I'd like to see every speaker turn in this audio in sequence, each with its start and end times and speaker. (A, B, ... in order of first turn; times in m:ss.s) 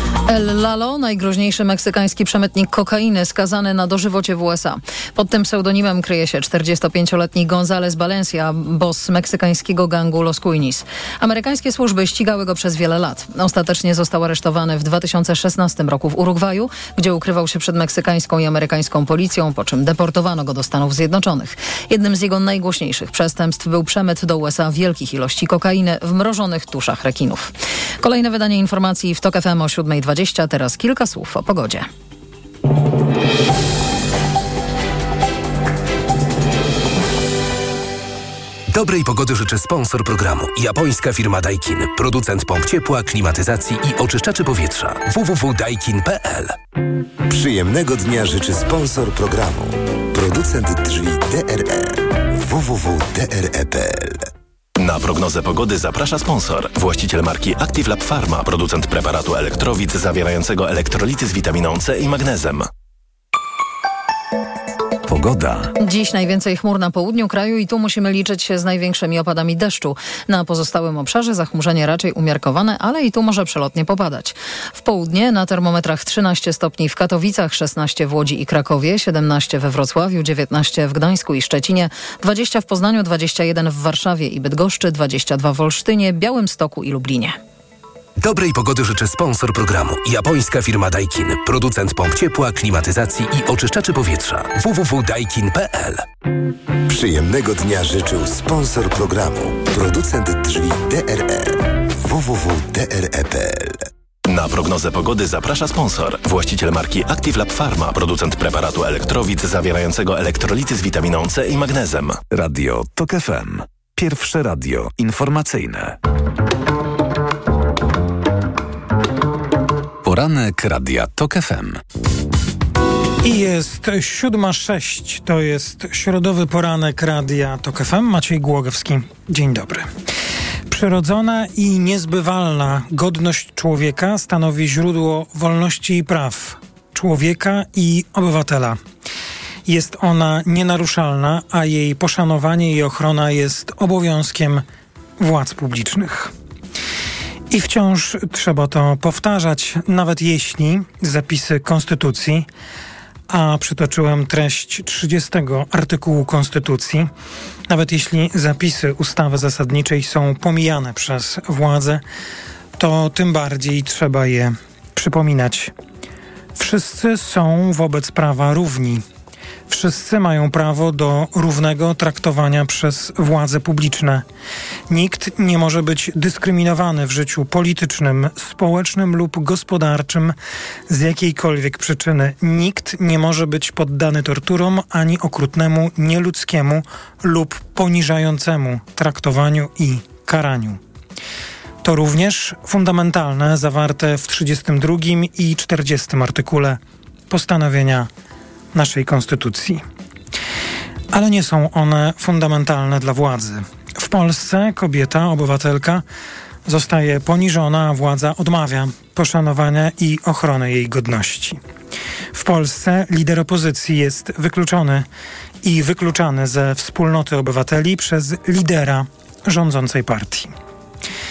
0:00.3-0:31.9 A
0:38.7-0:46.6 B
0:47.2-0:54.2 C
0:54.8-1:02.7 D
1:05.1-1:05.7 E
1:05.8-1:27.4 A
1:28.2-1:36.0 B
1:36.9-1:43.8 C
1:44.2-1:52.2 D
1:52.3-1:56.0 E
2:00.0-2:01.8 E
2:03.2-2:09.9 F
2:10.7-2:18.8 F
2:19.6-2:24.6 F
2:25.2-2:26.3 F
2:27.5-2:32.4 F
2:33.3-2:37.1 F
2:37.7-2:42.0 F
2:42.8-2:45.7 F
2:46.6-2:49.0 F
2:49.7-2:54.2 F
2:54.9-3:00.3 F
3:00.9-3:10.8 F
3:11.8-3:16.8 F
3:17.3-3:18.1 F
3:18.7-3:19.8 F
3:21.1-3:26.0 F
3:26.6-3:31.6 F
3:32.3-3:35.0 F
3:35.6-3:40.5 F